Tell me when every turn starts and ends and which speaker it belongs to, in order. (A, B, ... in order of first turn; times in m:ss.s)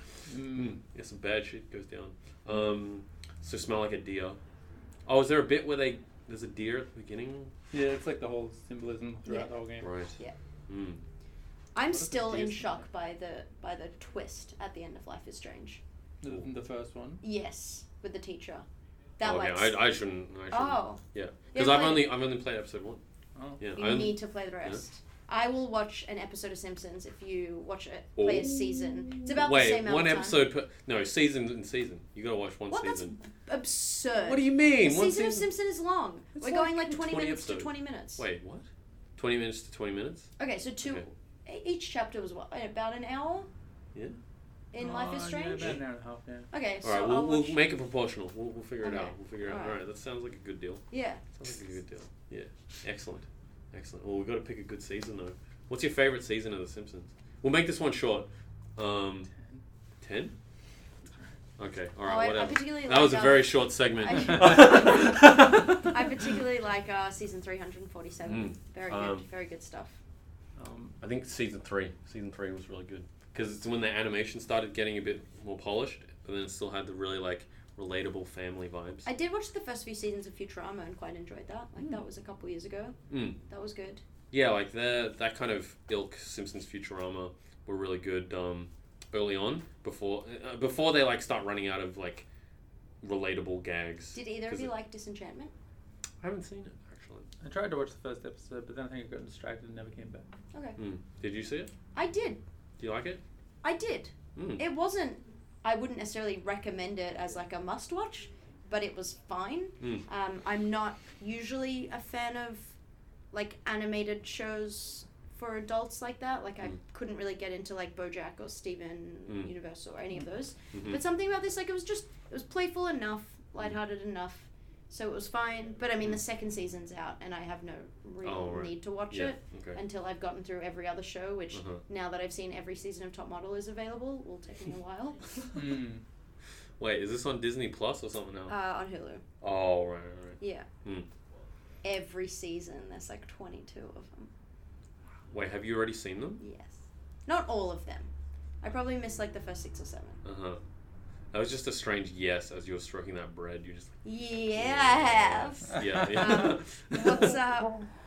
0:00.3-0:00.8 A
0:00.4-0:04.4 B
0:05.0-0:07.5 B
0:07.7-0:09.9 A
0:09.2-0:09.5 C
0:09.8-0:10.2 B
0:10.7-0:11.0 B
0:11.7-0:15.8 C
0:11.9-0:12.8 A
0:16.2-0:17.2 A
0:17.2-0:18.6 C
0:19.2-0:19.8 C
0:19.2-0:23.0 B
0:20.5-0:21.0 C
0:21.5-0:22.1 C
0:23.3-0:23.6 A
0:23.6-0:24.8 B
0:23.7-0:30.4 C
0:28.2-0:33.1 B
0:32.7-0:38.2 C
0:34.2-0:35.5 B
0:36.4-0:40.3 B
0:40.4-0:43.5 C
0:44.7-0:45.8 C
0:44.8-0:46.5 A
0:46.5-0:47.6 C
0:46.8-0:59.3 B
0:48.8-0:49.8 C
0:50.9-0:51.2 C
0:59.3-0:59.6 A
1:00.0-1:00.3 B
1:01.6-1:06.4 B
1:02.0-1:10.0 C
1:08.2-1:09.2 B
1:10.6-1:11.0 A
1:11.0-1:19.0 B
1:19.0-1:23.0 C
1:23.1-1:23.4 B
1:23.5-1:24.0 C
1:24.3-1:32.2 B
1:33.0-1:34.7 B
1:34.1-1:35.5 C
1:36.2-1:37.3 B
1:37.4-1:40.2 A
1:40.5-1:40.8 C
1:40.8-1:41.7 B
1:41.9-1:42.4 C
1:42.8-1:43.2 B
1:43.6-1:52.8 C
1:44.3-1:44.6 B
1:53.3-2:15.5 C
2:00.7-2:01.0 B
2:08.2-2:09.8 B
2:11.5-2:11.8 B
2:15.5-2:16.0 A
2:16.8-2:18.5 B
2:18.5-2:19.2 C
2:19.4-2:21.1 B
2:20.4-2:20.7 C
2:21.8-2:24.3 C
2:25.3-2:26.4 B
2:26.4-2:28.1 C
2:28.6-2:30.2 C
2:30.2-2:30.6 B
2:31.3-2:34.0 B
2:34.0-2:37.8 C
2:34.5-2:37.3 B